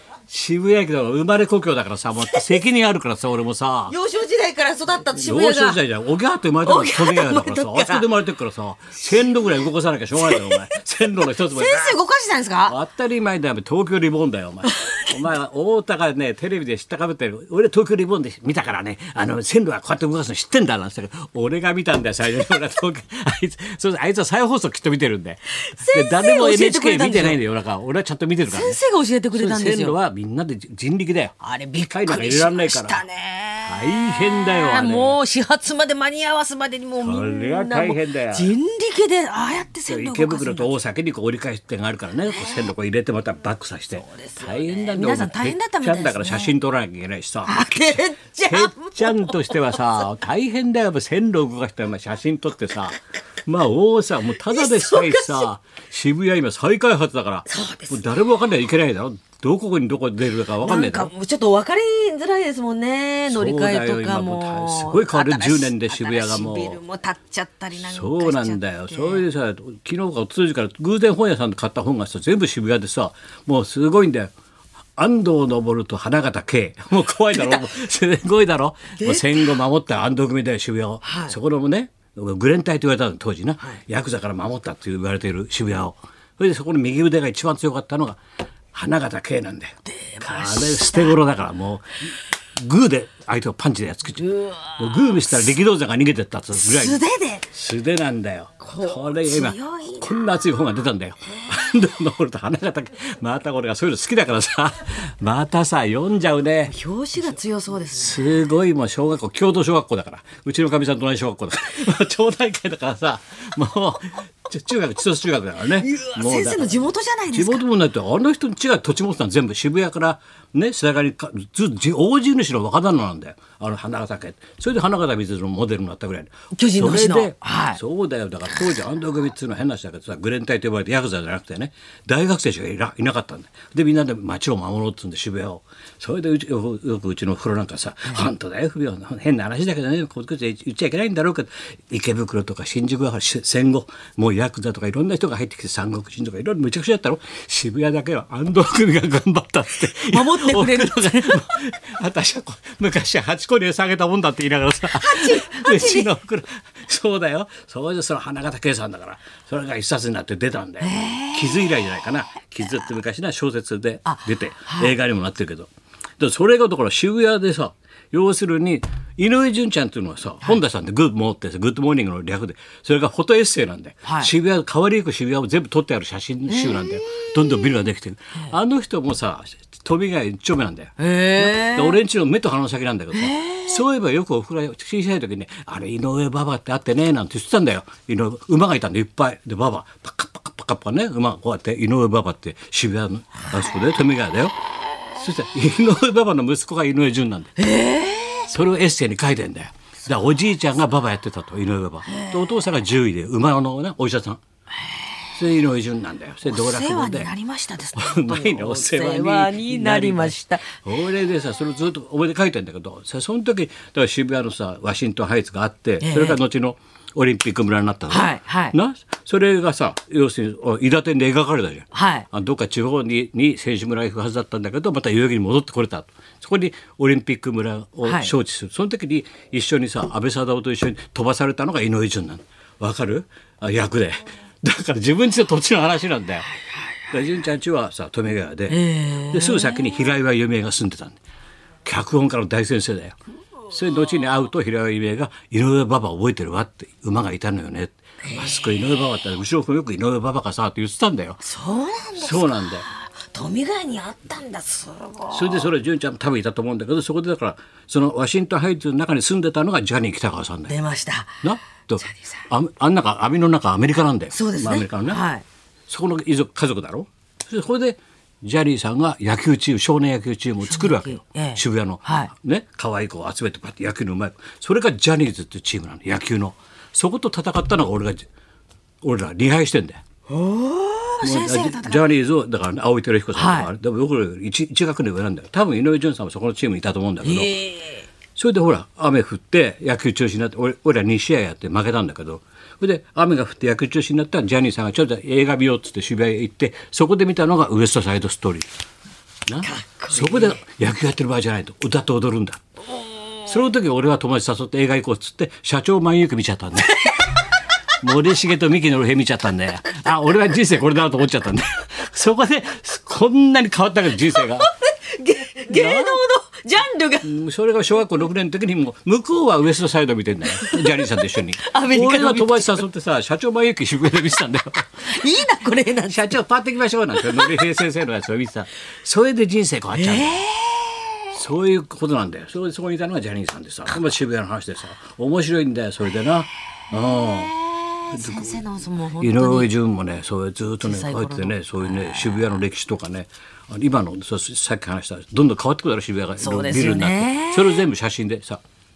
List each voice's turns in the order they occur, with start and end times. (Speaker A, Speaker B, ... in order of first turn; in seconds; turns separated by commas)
Speaker A: 0.3-3.9, Speaker B: 3.9-5.8, Speaker A: 5.1-12.0, Speaker B: 6.6-8.1, Speaker B: 10.2-10.7, Speaker B: 11.4-12.8, Speaker A: 12.7-28.8, Speaker B: 14.6-15.2, Speaker B: 25.6-27.4, Speaker B: 28.5-30.0, Speaker A: 29.3-31.4, Speaker B: 31.4-40.8, Speaker A: 31.9-33.0, Speaker A: 33.6-35.2, Speaker A: 37.0-38.6, Speaker A: 39.9-61.1, Speaker B: 42.3-42.7, Speaker B: 44.0-46.5, Speaker B: 47.4-50.0, Speaker B: 54.5-55.5, Speaker B: 57.5-58.0, Speaker B: 60.6-69.2, Speaker A: 63.3-66.8, Speaker A: 67.8-74.3, Speaker A: 75.0-88.2, Speaker B: 77.3-77.7, Speaker B: 79.0-79.5, Speaker B: 81.0-81.4, Speaker A: 88.7-106.7, Speaker B: 89.9-91.2, Speaker B: 94.2-95.4, Speaker B: 96.5-97.5, Speaker B: 98.6-100.2, Speaker B: 106.7-108.4, Speaker A: 107.9-194.6, Speaker B: 115.8-117.6, Speaker B: 126.5-127.8, Speaker B: 149.9-151.4, Speaker B: 154.9-156.1, Speaker B: 160.8-161.9, Speaker B: 164.0-165.0, Speaker B: 174.0-174.3, Speaker B: 176.5-177.0, Speaker B: 181.0-182.0, Speaker B: 183.1-183.8, Speaker A: 195.1-197.7, Speaker B: 197.6-198.5, Speaker A: 198.4-204.4, Speaker B: 202.1-202.7, Speaker A: 205.3-207.3, Speaker B: 206.4-210.7, Speaker A: 207.9-236.5, Speaker B: 216.0-216.4, Speaker B: 218.1-218.7, Speaker B: 221.9-222.2, Speaker B: 228.0-228.3, Speaker A: 237.1-241.2, Speaker B: 238.7-240.0, Speaker A: 241.8-251.4, Speaker B: 248.2-248.6, Speaker B: 251.4-255.7, Speaker A: 252.2-252.9, Speaker A: 255.3-260.7, Speaker B: 260.7-261.4, Speaker A: 261.4-265.2, Speaker B: 264.3-265.4, Speaker A: 265.9-278.2, Speaker B: 270.6-272.3, Speaker A: 279.0-280.0, Speaker B: 280.3-282.0, Speaker A: 281.2-287.6, Speaker B: 283.3-283.7, Speaker B: 287.2-288.1, Speaker A: 288.4-298.7, Speaker A: 299.5-302.6, Speaker B: 299.6-300.6, Speaker A: 303.4-307.4, Speaker B: 307.0-307.3, Speaker A: 307.9-314.7, Speaker B: 314.2-317.3, Speaker A: 315.7-316.2, Speaker A: 317.2-325.2, Speaker B: 320.6-322.8, Speaker B: 325.0-326.4, Speaker A: 326.1-330.4, Speaker B: 327.1-327.6, Speaker B: 329.9-331.4, Speaker A: 331.3-337.6, Speaker B: 336.9-339.7, Speaker A: 338.1-338.6, Speaker A: 339.2-348.6, Speaker B: 340.8-342.5, Speaker B: 346.4-347.9